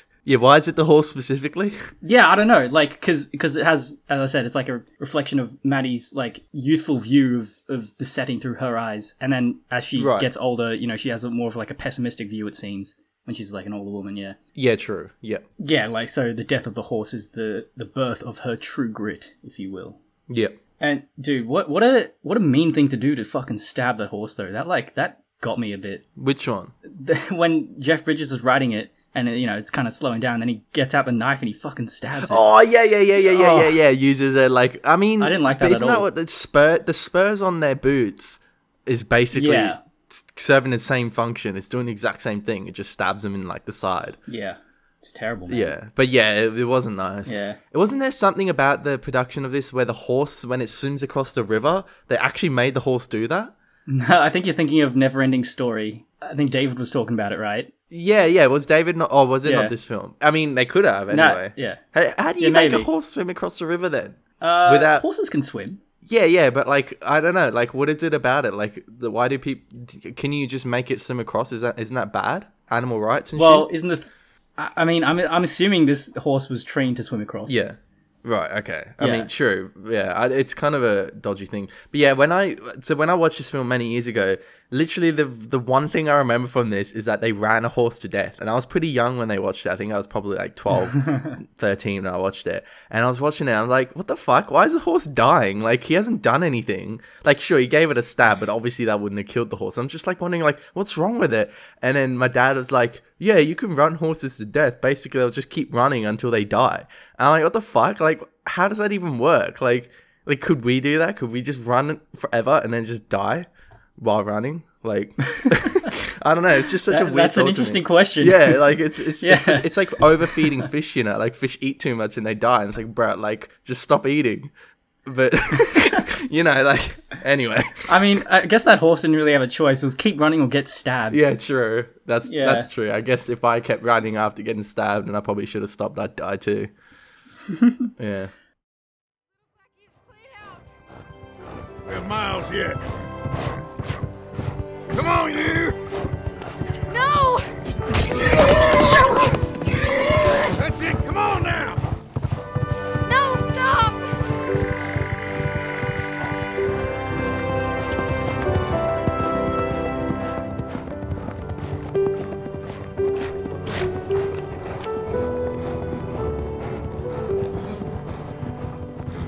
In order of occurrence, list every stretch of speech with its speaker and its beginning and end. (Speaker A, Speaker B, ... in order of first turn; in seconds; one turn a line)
Speaker A: 0.2-1.8
Speaker B: 2.0-14.4
Speaker A: 10.0-10.3
Speaker A: 14.6-15.4
Speaker B: 15.6-20.0
Speaker A: 20.3-20.6
Speaker B: 20.8-26.0
Speaker A: 26.2-26.7
Speaker B: 26.9-32.5
Speaker A: 32.2-44.2
Speaker B: 33.2-33.8
Speaker B: 35.2-36.1
Speaker B: 39.3-39.8
Speaker B: 44.3-45.7
Speaker A: 45.5-53.5
Speaker B: 47.3-47.6
Speaker B: 53.9-57.7
Speaker A: 57.9-65.0
Speaker B: 59.4-59.7
Speaker B: 61.1-61.8
Speaker B: 62.4-62.9
Speaker B: 64.4-65.8
Speaker A: 66.0-73.7
Speaker B: 73.3-77.6
Speaker A: 77.5-124.5
Speaker B: 79.0-79.3
Speaker B: 91.0-91.3
Speaker B: 115.3-115.9
Speaker B: 116.8-120.6
Speaker A: 125.1-127.9
Speaker B: 127.9-131.2
Speaker A: 131.1-136.7
Speaker B: 132.3-132.7
Speaker B: 137.5-137.9
Speaker A: 138.0-138.3
Speaker C: 141.8-142.8
Speaker C: 144.9-145.8
Speaker D: 146.9-147.4
Speaker D: 148.1-149.1
Speaker C: 150.6-151.8
Speaker D: 153.0-154.1